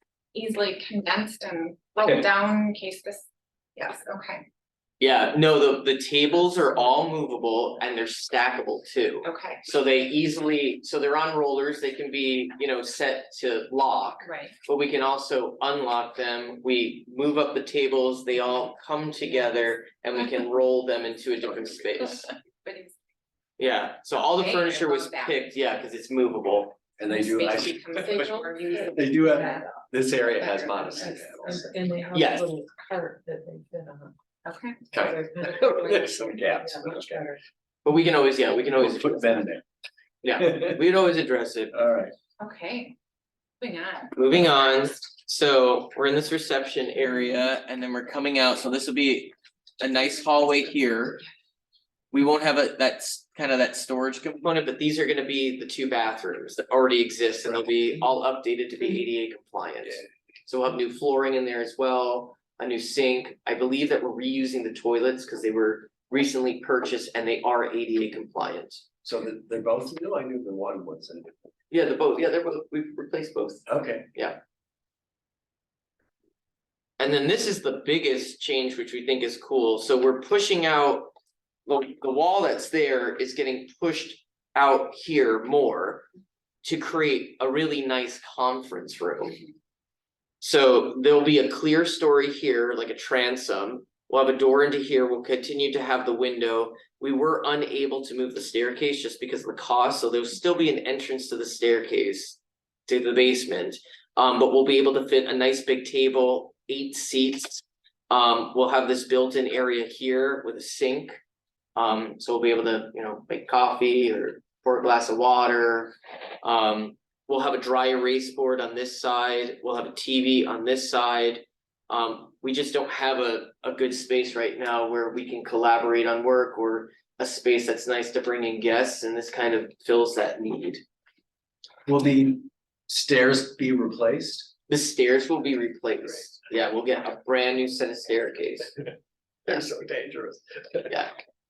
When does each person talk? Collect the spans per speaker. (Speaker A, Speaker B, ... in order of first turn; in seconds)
Speaker A: 0.3-4.4, 9.2-9.6, 14.2-14.5, 22.6-22.9, 24.1-25.4, 27.0-32.1, 34.4-34.8, 42.4-43.0, 43.6-44.5
Speaker B: 5.0-22.3, 23.6-26.8, 32.1-32.5, 37.8-39.4, 40.2-41.8, 44.1-51.2, 52.1-68.8, 71.7-74.4, 77.0-81.1, 81.7-86.1, 86.6-89.4, 90.4-111.2, 111.8-130.8, 134.7-138.8, 140.9-141.1
Speaker C: 27.0-31.7, 34.9-37.3, 38.8-39.6, 40.4-40.8, 41.7-42.1, 69.0-71.4, 73.7-74.1, 131.8-134.5, 139.4-140.9
Speaker D: 31.0-34.1, 35.0-37.4